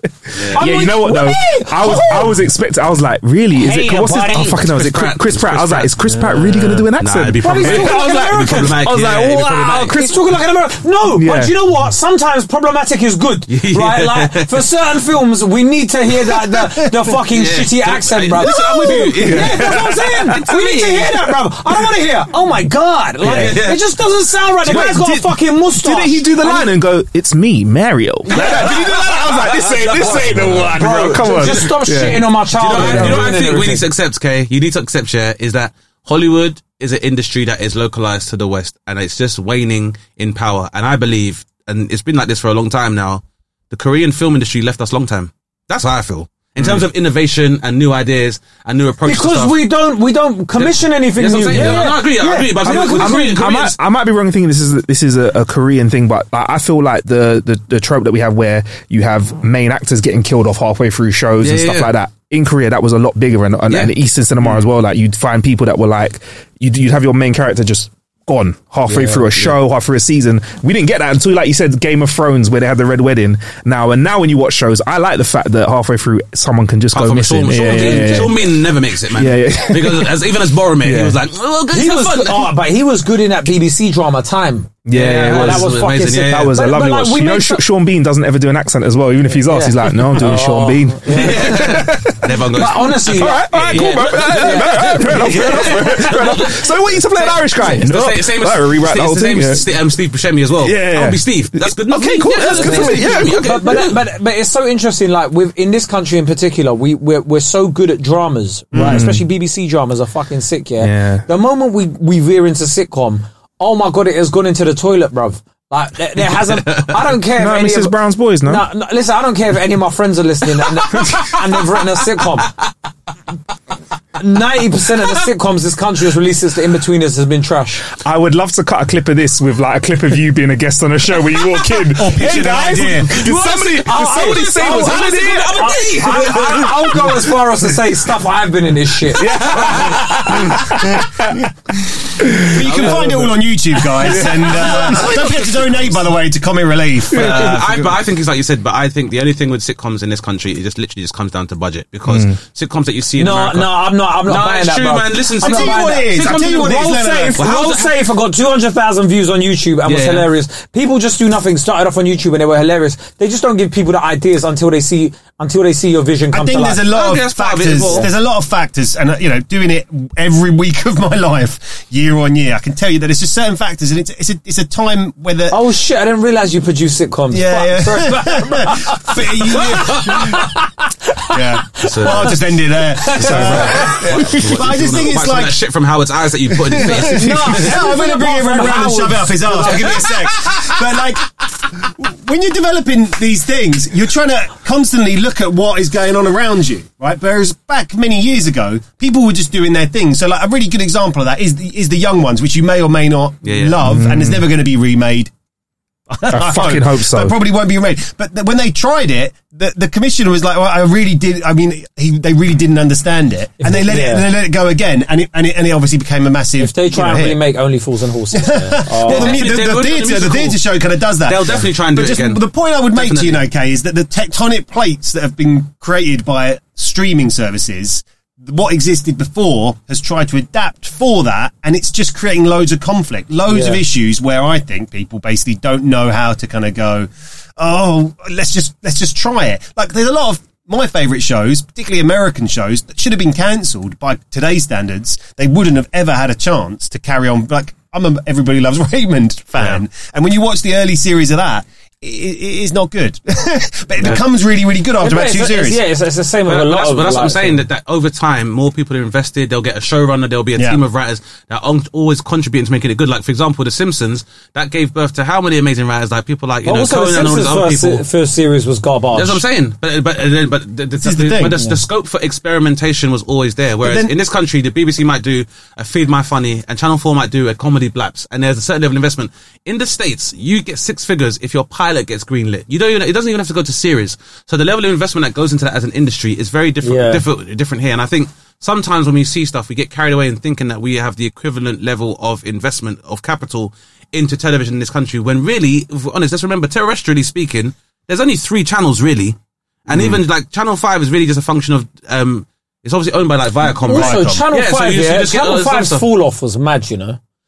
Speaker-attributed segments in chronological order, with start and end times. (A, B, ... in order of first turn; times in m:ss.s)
0:00.3-0:08.9 A
0:00.3-0:00.6 B
0:00.5-0:02.4 C
0:03.5-0:04.6 C
0:04.6-0:10.1 B
0:06.1-0:06.8 D
0:07.4-0:26.7 C
0:11.1-0:11.6 A
0:13.5-0:14.6 B
0:17.3-0:21.1 B
0:19.1-0:20.6 A
0:23.2-0:23.6 A
0:23.3-0:23.8 B
0:24.6-0:33.4 A
0:28.2-0:33.8 C
0:28.3-0:31.6 B
0:32.6-0:49.6 B
0:49.0-0:53.3 C
0:50.6-0:53.8 B
0:51.5-1:21.2 A
1:01.4-1:01.9 B
1:08.9-1:09.2 C
1:16.9-1:22.5 B
1:17.6-1:18.3 C
1:21.7-1:27.6 C
1:24.8-1:32.3 A
1:24.9-1:26.5 B
1:29.3-1:31.8 C
1:31.1-1:44.0 B
1:32.5-1:36.4 C
1:33.0-1:39.7 A
1:40.6-1:43.8 A
1:42.4-2:02.5 C
1:48.7-1:49.1 D
1:48.8-1:49.2 A
1:50.8-1:51.3 A
1:56.4-1:57.0 B
1:57.2-1:58.6 A
2:04.2-2:07.8 C
2:07.9-2:17.3 A
2:12.0-2:13.3 D
2:12.2-2:20.4 C
2:13.8-2:16.9 B
2:19.2-2:21.5 A
2:19.2-2:20.6 B
2:22.2-2:23.3 A
2:22.5-2:28.0 D
2:22.6-2:23.2 B
2:24.0-2:25.2 A
2:24.0-2:26.0 B
2:27.1-2:27.6 A
2:27.1-2:37.9 B
2:32.0-2:32.4 A
2:33.2-2:46.8 C
2:35.4-2:37.5 D
2:39.8-2:40.3 B
2:46.3-2:55.6 D
2:46.9-2:48.1 B
2:47.8-2:48.1 C
2:55.5-3:04.3 C
2:57.3-3:00.5 D
3:01.3-3:05.6 D
3:01.8-3:02.4 B
3:03.1-3:07.9 B
3:06.6-3:25.3 D
3:06.8-3:10.0 C
3:23.4-3:23.8 B
3:23.8-3:24.5 A
3:26.1-3:37.4 D
3:26.3-3:27.4 A
3:33.6-3:34.3 C
3:36.6-3:39.4 C
3:38.3-4:15.8 D
3:39.0-3:40.6 B
3:41.2-3:43.4 B
3:53.5-3:53.8 C
4:15.0-4:17.6 C
4:16.5-4:28.0 B
4:20.6-4:20.8 D
4:26.6-4:29.4 C
4:29.1-5:06.0 B
4:31.0-4:31.6 D
4:33.8-4:34.1 D
4:46.8-4:47.2 C
4:59.9-5:00.2 D
5:03.7-5:04.4 D
5:03.9-5:07.2 C